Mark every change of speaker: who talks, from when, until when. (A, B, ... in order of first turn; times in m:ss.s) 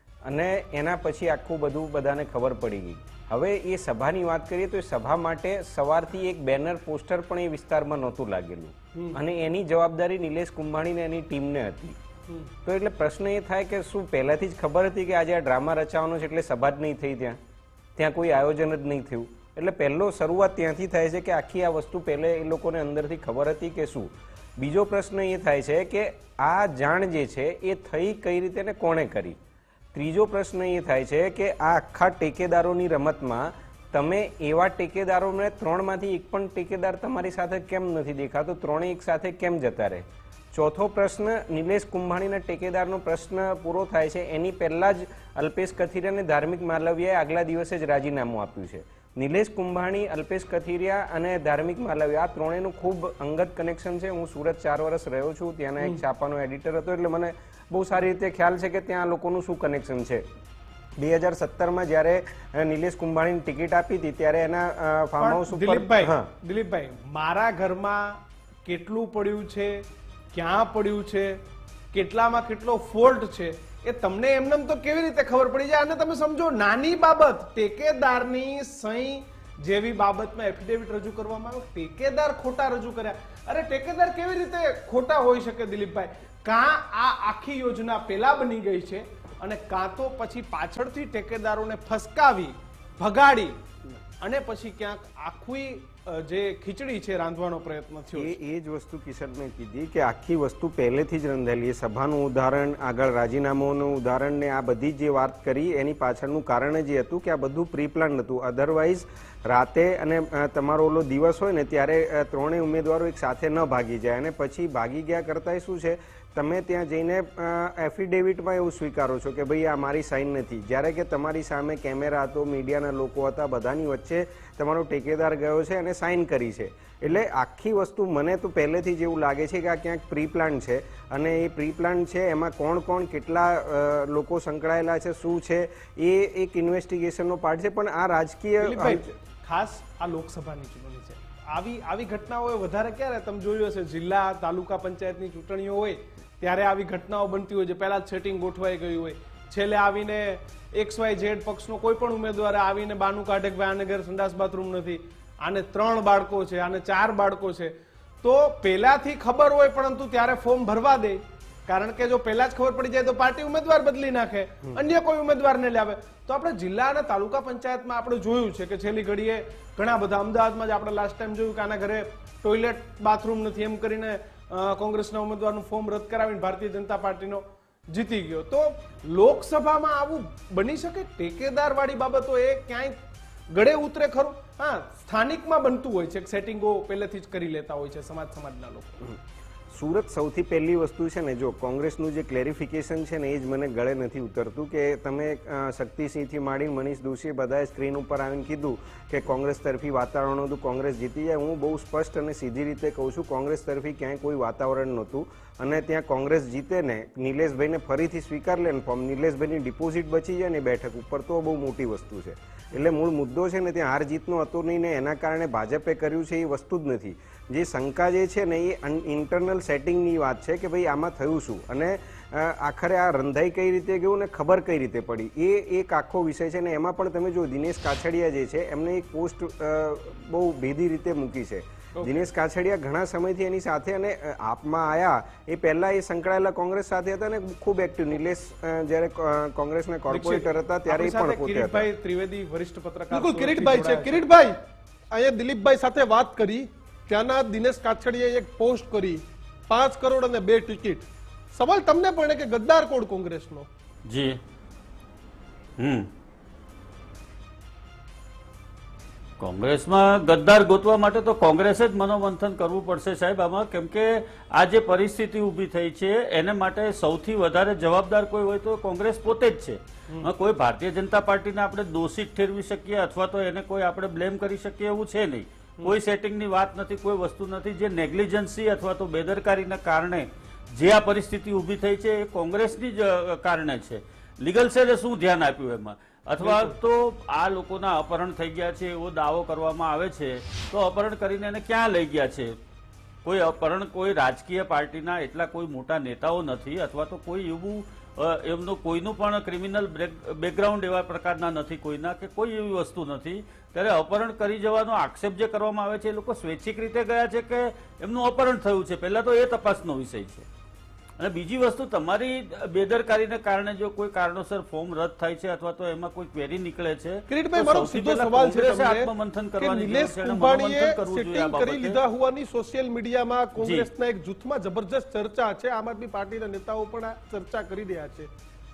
0:00.2-0:12.0 A
0:08.9-0:09.2 B
0:12.6-0:17.4 A
0:18.0-0:29.4 A
0:29.9-1:00.3 A
1:01.0-1:06.3 A
1:05.2-1:11.4 B
1:11.9-1:33.6 B
1:34.2-1:38.3 B
1:38.1-2:19.1 A
2:18.6-3:03.0 B
3:03.5-3:09.0 B
3:09.7-4:01.9 A
4:00.1-4:04.2 B
4:03.1-4:04.6 C
4:05.1-4:13.7 C
4:14.1-4:14.4 D
4:15.8-4:16.1 D
4:19.4-4:52.5 D
4:46.4-4:46.7 B
4:53.2-5:10.4 D
5:11.2-5:22.0 D
5:17.3-5:28.3 C
5:23.6-5:23.9 D